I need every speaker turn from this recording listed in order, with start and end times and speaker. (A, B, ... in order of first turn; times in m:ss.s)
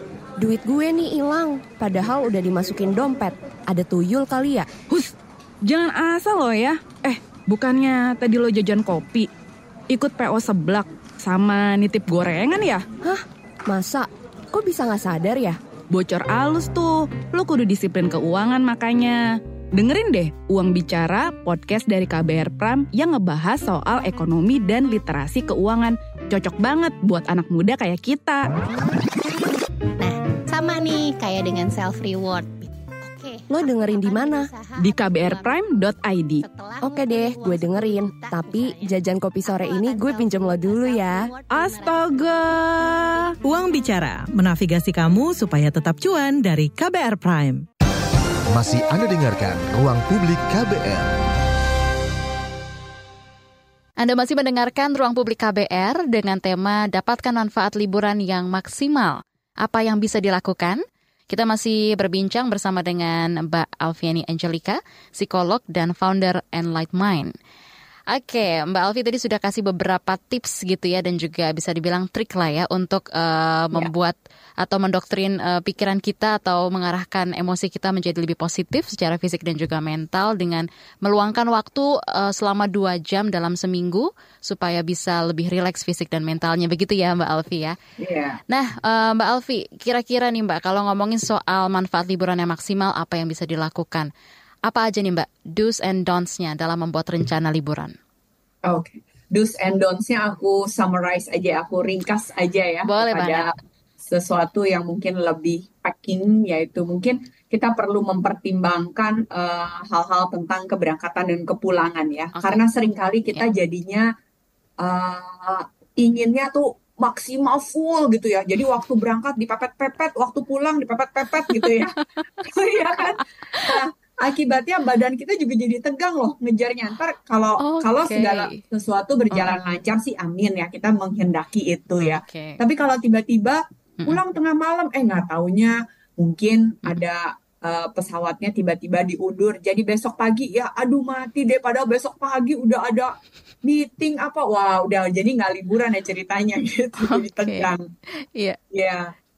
0:00.4-0:04.7 A
0:05.6-0:09.3 B
0:09.9-0:12.8 B
0:13.0-0:15.6 A
0:15.9-0:19.2 B
0:19.7-0:28.5 B
0:30.0-0:43.4 C
0:33.5-0:34.5 A
0:34.8-0:36.4 B
0:36.8-0:41.3 A
0:41.5-0:43.0 B
0:43.4-0:47.6 D
0:48.5-0:51.1 E
0:54.0-1:07.3 F
1:08.1-1:27.8 F
1:28.0-1:28.4 G
1:28.5-1:34.1 F
1:34.7-1:38.0 F
1:38.7-1:43.5 G
1:42.9-1:43.5 F
1:44.0-1:54.1 G
1:52.4-1:52.6 F
1:54.8-2:27.8 G
2:01.5-2:02.1 F
2:03.5-2:03.8 F
2:07.6-2:08.6 F
2:12.2-2:12.6 F
2:27.0-2:27.7 F
2:28.7-2:29.1 G